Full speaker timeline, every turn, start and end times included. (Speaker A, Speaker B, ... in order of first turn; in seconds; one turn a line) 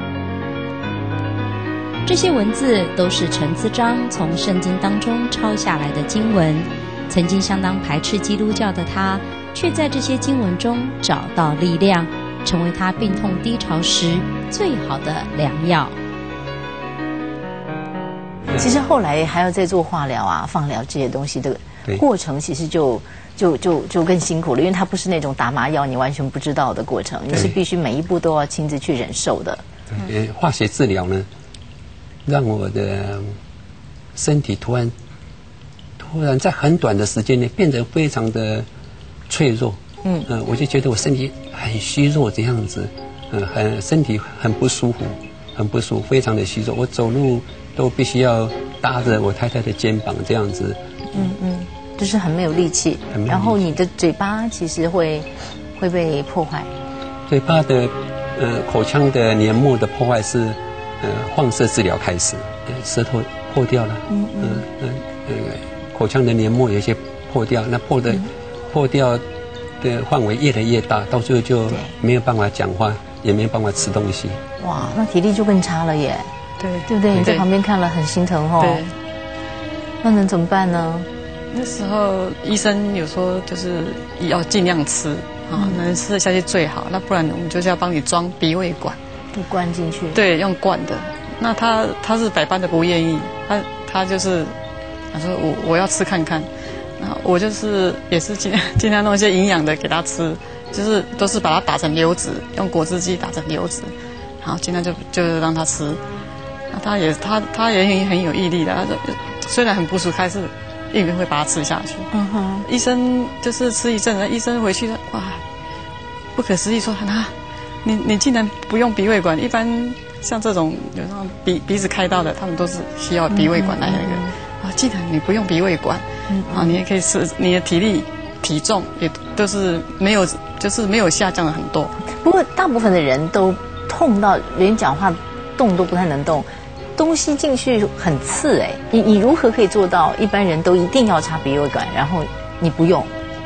Speaker A: 2.0-15.9
Speaker B: 18.5-29.6
Speaker C: 27.3-27.6
Speaker C: 29.9-31.3
Speaker C: 32.2-33.4
Speaker C: 34.1-34.9
Speaker C: 36.0-38.7
Speaker C: 39.3-50.8
Speaker B: 51.1-56.7
Speaker C: 53.1-53.8
Speaker C: 57.3-69.2
Speaker B: 64.1-64.6
Speaker C: 69.8-74.4
Speaker B: 74.6-76.3
Speaker D: 76.6-77.5
Speaker B: 76.9-78.8
Speaker D: 78.6-78.9
Speaker B: 80.0-81.1
Speaker D: 81.5-89.0
Speaker B: 85.5-85.8
Speaker B: 89.3-90.2
Speaker D: 90.1-94.5
Speaker D: 95.1-106.0
Speaker D: 106.7-112.1
Speaker B: 112.1-112.7
Speaker D: 112.7-115.4
Speaker D: 116.3-117.3
Speaker D: 117.8-132.0
Speaker B: 123.3-124.3
Speaker B: 126.3-126.8
Speaker B: 132.1-143.1